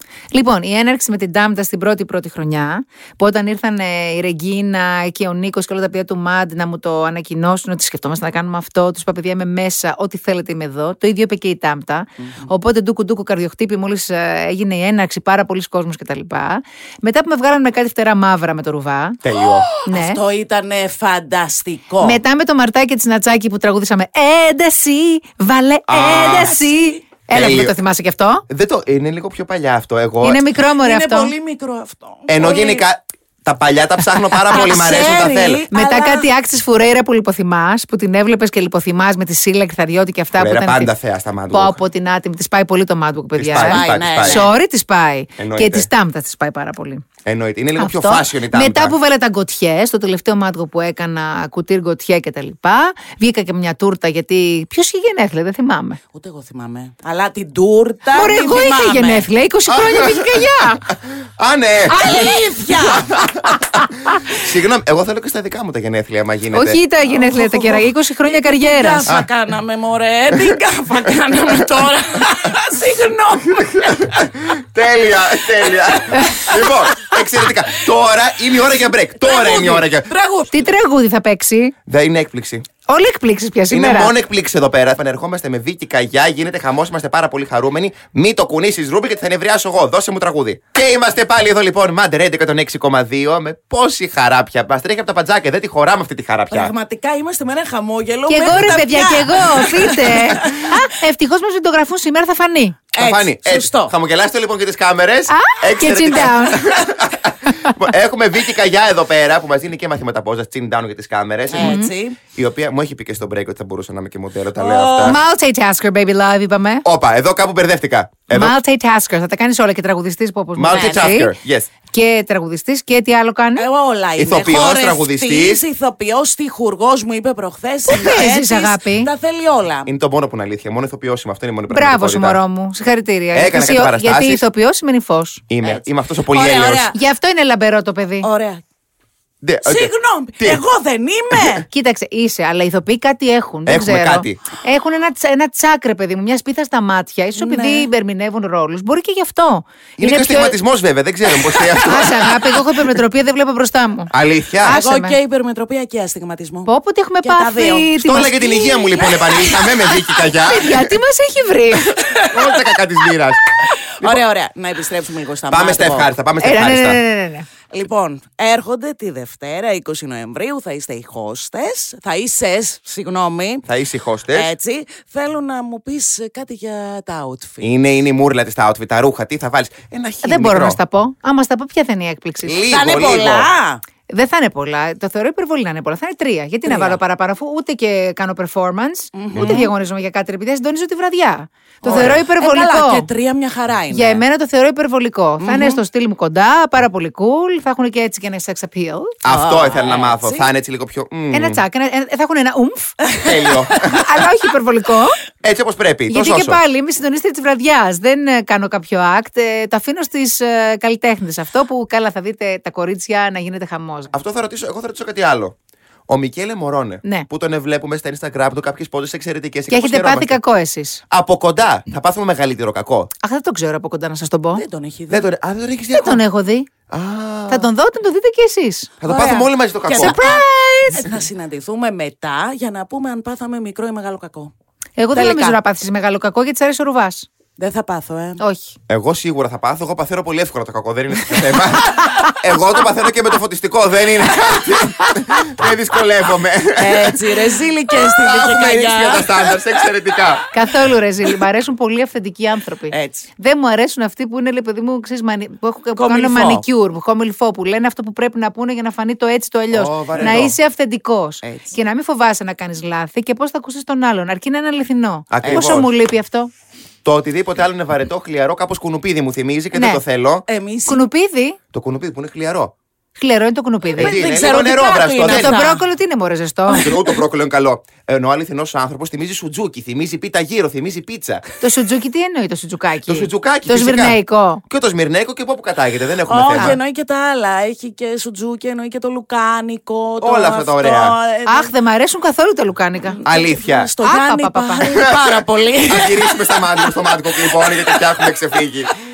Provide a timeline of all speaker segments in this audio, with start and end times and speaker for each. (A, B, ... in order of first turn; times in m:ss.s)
0:00.3-0:19.2 A
0:19.2-0:19.7 B
0:19.4-0:22.2 C
0:19.8-0:20.2 A
0:22.0-0:28.4 A
0:25.9-0:26.6 B
0:26.0-0:27.0 C
0:27.3-0:27.8 B
0:28.5-0:30.4 B
0:30.2-0:31.3 A
0:30.6-0:32.8 C
0:32.3-0:35.6 B
0:34.5-0:36.3 C
0:35.7-0:40.9 A
0:40.4-0:41.8 B
0:41.5-0:47.0 A
0:43.4-0:44.5 B
0:43.6-0:44.5 C
0:45.4-0:45.9 B
0:47.2-0:48.9 B
0:47.8-0:56.0 A
0:56.1-0:59.3 C
0:58.1-1:00.9 A
0:59.7-1:02.3 B
1:01.9-1:03.3 C
1:02.8-1:06.8 B
1:06.5-1:09.1 A
1:07.0-1:14.2 C
1:13.6-1:20.1 B
1:15.7-1:16.8 C
1:16.1-1:16.5 A
1:19.2-1:20.6 C
1:20.5-1:21.7 A
1:21.9-1:22.6 B
1:22.9-1:24.1 A
1:23.7-1:36.7 B
1:36.5-1:40.7 C
1:38.3-1:42.8 A
1:42.9-1:43.9 C
1:43.0-1:55.2 B
1:45.3-1:46.6 A
1:51.5-1:52.2 C
1:51.6-1:51.9 A
1:54.6-1:55.2 C
1:55.0-1:56.8 A
1:56.8-1:58.6 B
1:58.3-2:01.3 A
2:00.6-2:01.7 B
2:00.7-2:01.2 C
2:01.9-2:03.7 A
2:03.6-2:09.9 C
2:04.2-2:05.6 B
2:07.9-2:09.1 A
2:09.8-2:12.4 B
2:11.7-2:15.4 A
2:13.3-2:14.4 B
2:15.5-2:16.9 B
2:15.6-2:17.0 C
2:16.9-2:18.3 A
2:18.2-2:18.6 C
2:19.4-2:20.6 B
2:19.6-2:21.7 C
2:21.7-2:30.6 A
2:23.7-2:24.4 B
2:27.4-2:27.9 C
2:30.0-2:32.6 B
2:31.8-2:35.2 A
2:34.1-2:34.8 B
2:34.7-2:36.7 C
2:36.6-2:39.1 A
2:37.2-2:40.0 C
2:38.0-2:41.0 B
2:40.5-2:42.0 A
2:42.0-2:42.6 C
2:42.3-2:43.4 B
2:43.7-2:46.1 C
2:45.5-2:47.0 B
2:46.4-2:47.5 A
2:47.7-2:53.6 C
2:53.6-2:54.5 B
2:54.3-2:57.7 C
2:57.6-3:00.8 B
3:00.2-3:02.7 A
3:02.4-3:03.5 B
3:02.7-3:03.8 C
3:04.1-3:13.1 A
3:06.6-3:07.0 C
3:09.1-3:09.7 C
3:09.3-3:09.6 B
3:11.8-3:14.2 C
3:11.9-3:12.2 B
3:13.9-3:19.2 A
3:15.4-3:15.8 C
3:19.2-3:21.6 B
3:19.2-3:20.5 C
3:21.3-3:23.0 A
3:23.1-3:23.5 C
3:23.2-3:24.2 B
3:23.9-3:25.2 A
3:25.4-3:26.6 B
3:26.1-3:34.1 A
3:34.1-3:35.5 B
3:36.1-3:40.4 B
3:39.7-3:41.0 A
3:41.1-3:43.1 B
3:43.2-3:44.6 A
3:44.6-3:45.3 C
3:45.1-3:46.2 B
3:45.9-3:46.7 A
3:46.9-3:47.7 B
3:47.5-3:49.4 A
3:49.0-3:50.4 B
3:49.1-3:54.5 C
3:49.9-3:51.1 A
3:55.0-3:57.3 A
3:55.1-3:55.6 C
3:57.6-3:58.4 C
3:58.4-3:58.7 A
3:58.9-4:07.5 B
4:06.8-4:09.9 C
4:08.0-4:10.5 B
4:10.5-4:26.5 A
4:12.9-4:13.3 C
4:16.0-4:16.6 C
4:19.7-4:20.6 B
4:21.4-4:21.7 C
4:25.3-4:25.9 B
4:25.4-4:25.8 C
4:27.0-4:30.4 B
4:29.7-4:30.0 A
4:30.5-4:31.0 C
4:30.9-4:31.6 A
4:31.7-4:32.7 B
4:33.2-4:34.2 A
4:34.0-4:35.6 B
4:34.0-4:35.8 C
4:35.2-4:36.9 A
4:36.7-4:37.1 C
4:36.7-4:41.4 B
4:41.6-4:44.6 A
4:43.0-4:46.8 B
4:46.3-4:51.7 C
4:50.2-4:51.1 B
4:51.5-4:53.2 A
4:53.1-4:56.9 C
4:53.2-4:53.9 B
4:54.0-4:54.9 A
4:54.9-4:58.9 B